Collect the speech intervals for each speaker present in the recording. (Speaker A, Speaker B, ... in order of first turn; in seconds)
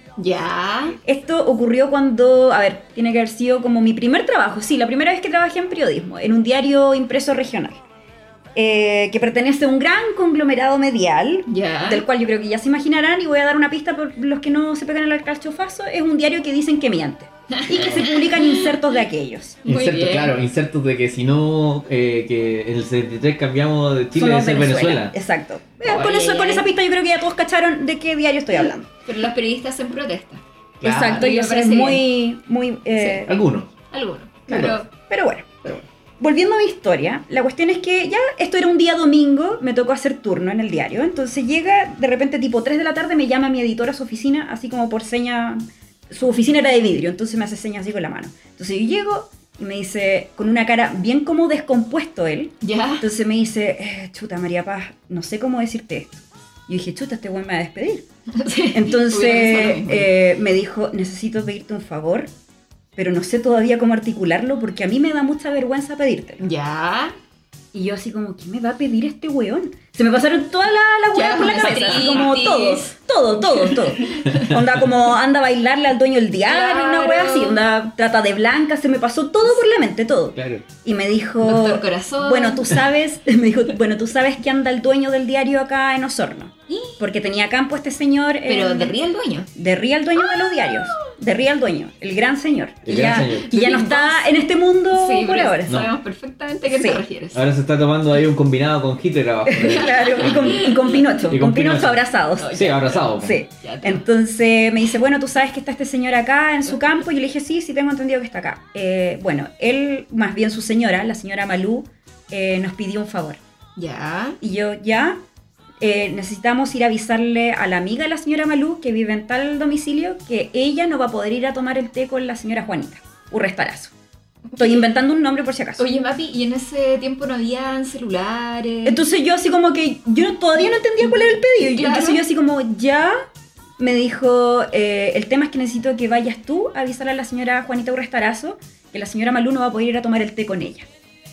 Speaker A: 0.2-1.0, 11.5-12.0, 17.5-18.7, 19.6-20.3, 25.9-26.7, 29.1-30.4, 31.1-32.0, 33.0-33.2, 33.9-34.9, 52.6-53.0, 58.3-60.1, 66.4-67.1, 71.1-72.9, 73.5-74.5, 76.5-77.6, 81.4-82.8, 86.7-87.0, 88.4-89.5, 90.2-91.0, 92.9-94.3, 94.9-97.4, 99.5-101.0, 102.4-104.0, 113.8-114.4, 124.5-124.8, 125.8-129.0, 131.0-132.2
Speaker B: 1.0-7.8, 8.6-19.6, 24.1-28.9, 30.8-33.3, 34.5-58.1, 58.7-62.3, 63.0-66.4, 67.7-88.9, 89.5-95.8, 96.7-97.0, 99.5-102.6, 103.2-113.4, 114.4-115.2, 115.8-123.9, 124.6-125.8, 128.8-133.1, 133.8-140.9
Speaker C: 19.6-25.1, 30.8-31.3, 33.2-33.7, 34.5-34.8, 74.3-74.8, 80.3-80.6, 92.8-93.5, 97.3-100.7, 101.3-103.4